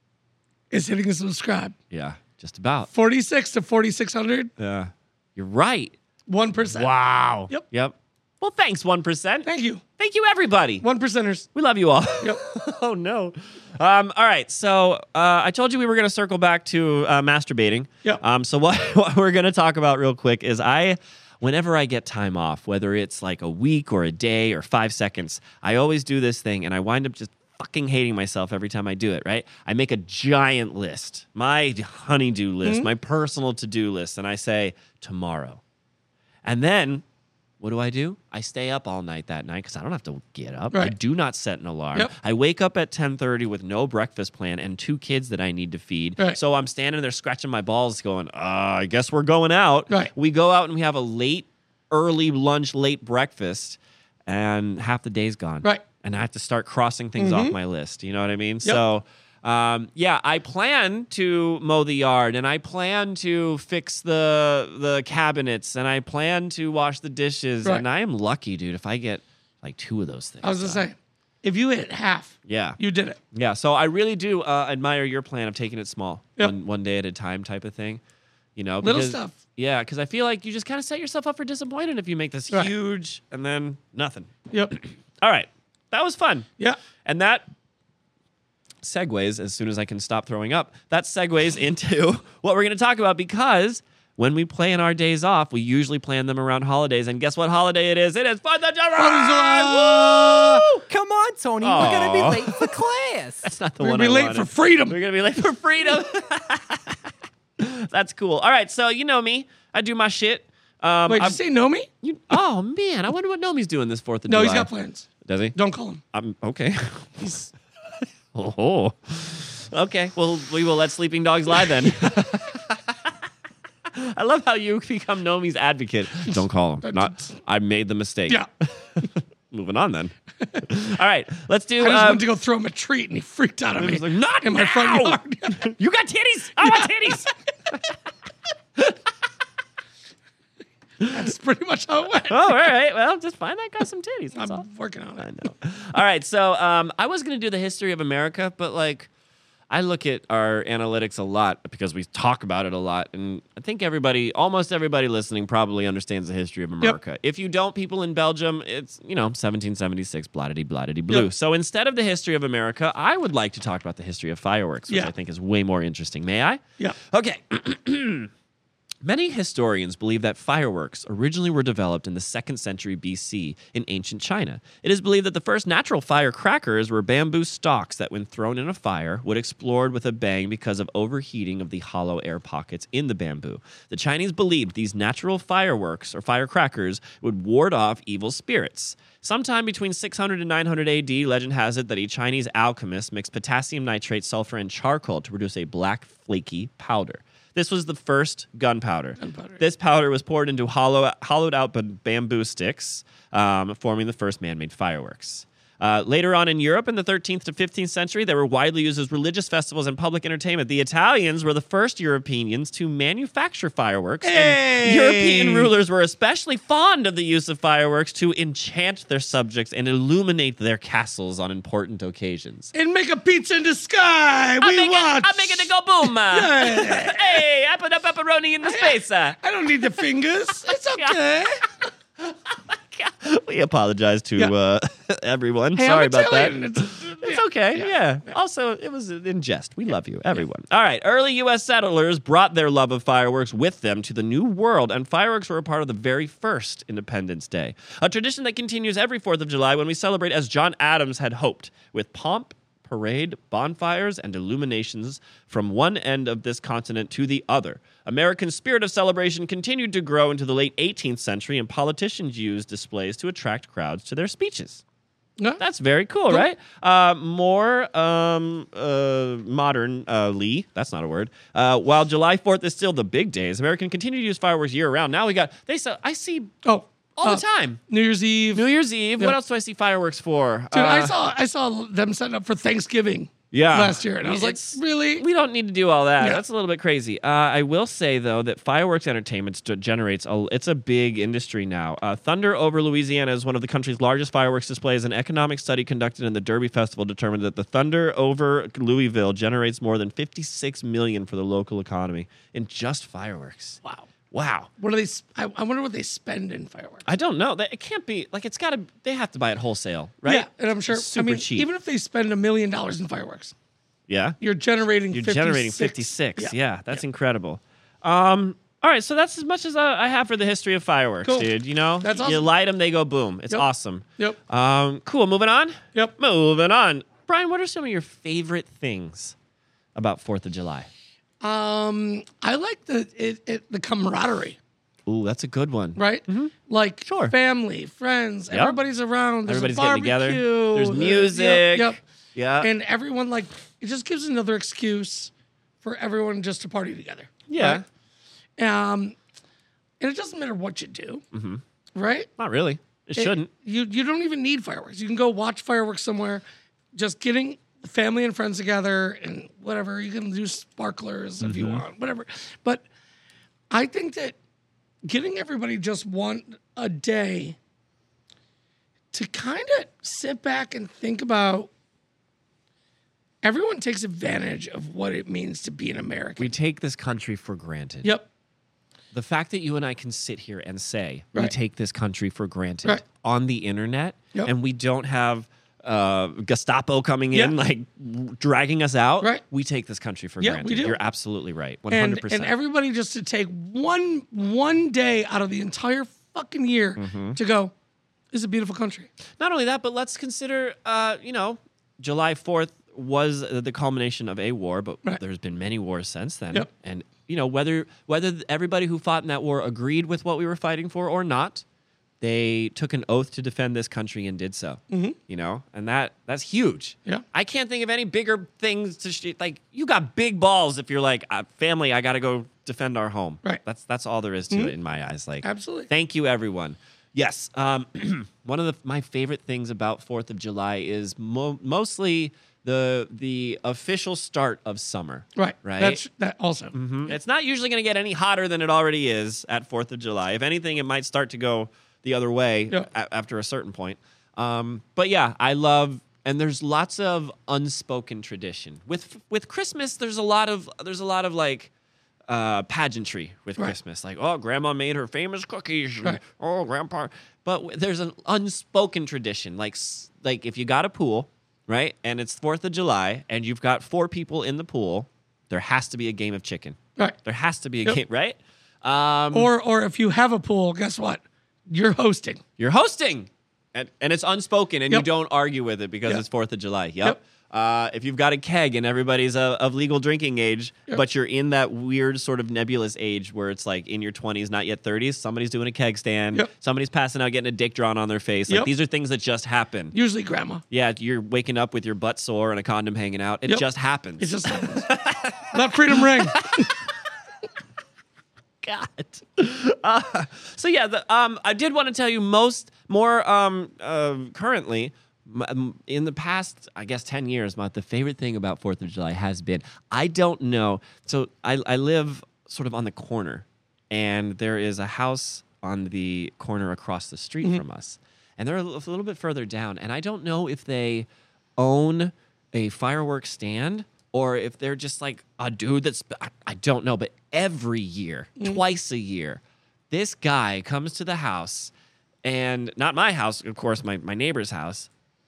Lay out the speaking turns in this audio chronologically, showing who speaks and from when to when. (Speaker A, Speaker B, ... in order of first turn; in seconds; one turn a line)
Speaker A: 0.7-1.7
Speaker B: 1.9-2.9
Speaker A: 2.9-4.5
Speaker B: 4.6-5.9
Speaker A: 6.3-6.9
Speaker B: 6.6-10.8
Speaker A: 9.4-9.8
Speaker A: 10.8-11.5
Speaker B: 11.5-35.6
Speaker B: 36.4-37.0
Speaker B: 37.6-70.8
Speaker A: 57.2-57.5
Speaker A: 70.4-73.2
Speaker B: 72.5-72.8
Speaker B: 73.3-78.0
Speaker B: 78.5-86.5
Speaker A: 78.8-79.3
Speaker B: 87.0-87.5
Speaker B: 88.8-100.8
Speaker A: 99.0-100.6
Speaker C: 100.7-103.5
Speaker B: 101.6-102.7
Speaker B: 103.4-111.4
Speaker A: 103.8-105.0
Speaker A: 111.1-111.9
Speaker B: 112.0-114.7
Speaker A: 114.3-116.0
Speaker B: 115.2-115.5
Speaker B: 116.1-117.5
Speaker B: 118.3-123.1
Speaker B: 123.9-132.3
Speaker A: 126.8-127.3
Speaker A: 131.8-135.7
Speaker B: 133.8-137.8
Speaker A: 136.6-137.3
Speaker A: 141.1-142.7
Speaker B: 142.3-144.7
Speaker A: 144.3-145.5
Speaker B: 145.2-149.1
Speaker B: 149.7-168.3
Speaker B: 169.0-222.7
Speaker A: 199.2-199.6
Speaker A: 214.2-215.7
Speaker A: 222.7-227.4
Speaker B: 224.6-229.9
Speaker A: 228.6-231.7
Speaker B: 230.7-231.2
Speaker B: 232.2-264.8
Speaker A: 235.7-237.9
Speaker B: 265.6-276.5
Speaker A: 276.6-278.6
Speaker B: 277.1-277.8
Speaker B: 278.5-281.1
Speaker A: 280.7-285.2
Speaker B: 283.5-303.8
Speaker A: 303.8-304.1
Speaker B: 304.3-304.7
Speaker A: 304.8-307.1
Speaker B: 307.1-311.7
Speaker A: 310.2-313.5
Speaker B: 314.1-314.4
Speaker A: 314.4-316.5
Speaker B: 315.1-329.3
Speaker A: 321.2-322.5
Speaker B: 329.9-330.9
Speaker A: 331.4-334.6
Speaker B: 335.1-336.5
Speaker A: 335.9-342.0
Speaker B: 337.1-337.3
Speaker B: 338.5-338.8
Speaker B: 339.4-342.7
Speaker A: 342.6-345.3
Speaker A: 345.8-347.8
Speaker B: 347.5-347.8
Speaker A: 348.6-349.1
Speaker A: 350.0-351.2
Speaker B: 351.3-351.6
Speaker A: 351.9-352.3
Speaker B: 352.4-353.5
Speaker A: 353.1-356.4
Speaker A: 356.9-362.8
Speaker B: 361.4-361.8
Speaker A: 363.7-364.4
Speaker A: 365.0-367.6
Speaker A: 369.1-371.7
Speaker A: 373.4-376.5
Speaker B: 376.4-378.2
Speaker B: 379.1-392.5
Speaker A: 390.4-391.0
Speaker A: 391.9-397.7
Speaker B: 397.0-397.4
Speaker A: 398.3-399.1
Speaker B: 399.4-411.6
Speaker B: 412.2-436.0
Speaker A: 414.9-415.2
Speaker A: 425.4-425.9
Speaker A: 435.4-436.8
Speaker B: 436.7-451.7
Speaker B: 452.3-469.5
Speaker A: 469.3-472.4
Speaker B: 472.6-489.9
Speaker A: 489.9-490.6
Speaker B: 490.7-496.9
Speaker A: 494.2-494.9
Speaker A: 495.5-496.7
Speaker B: 498.6-531.7
Speaker B: 532.2-534.9